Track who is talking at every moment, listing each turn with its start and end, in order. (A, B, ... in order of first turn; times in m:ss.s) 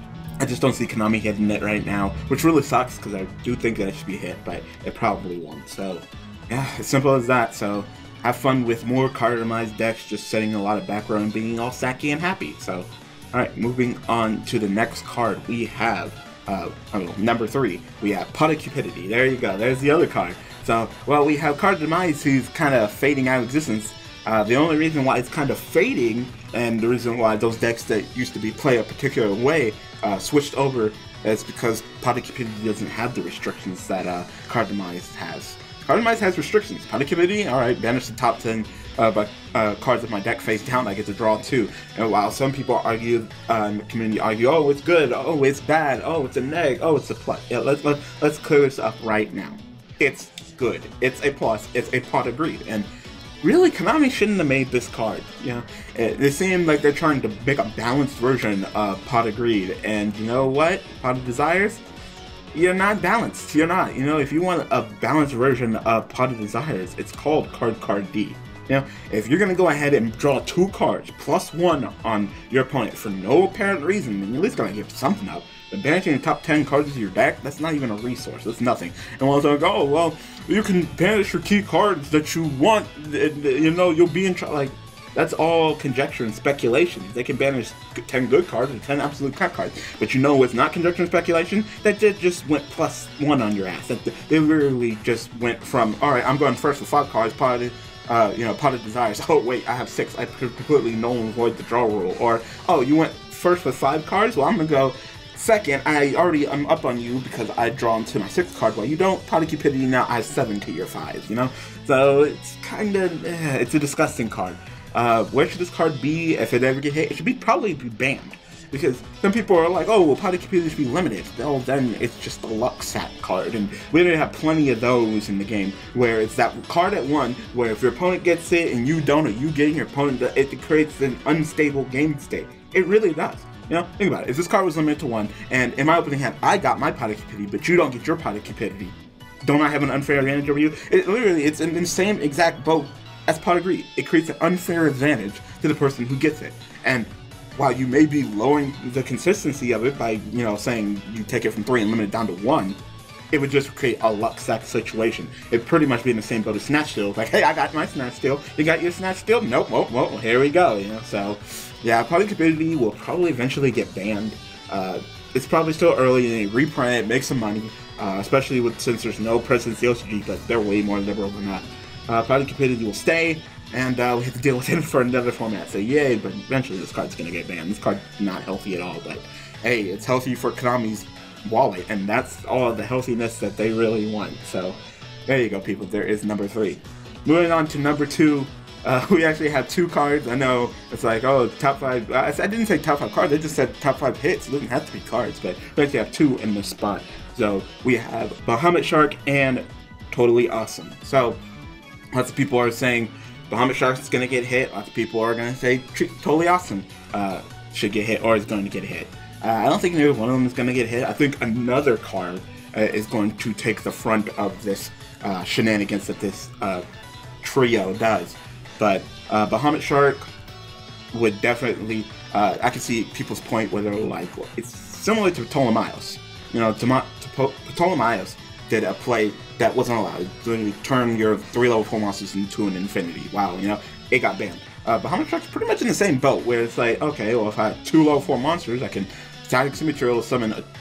0:00.4-0:52.9 A
0:53.4-1:01.8 A
1:02.5-2:32.8 A
2:33.3-3:21.4 A
3:22.1-3:36.8 A
3:37.4-3:40.3 A
3:41.1-4:00.6 A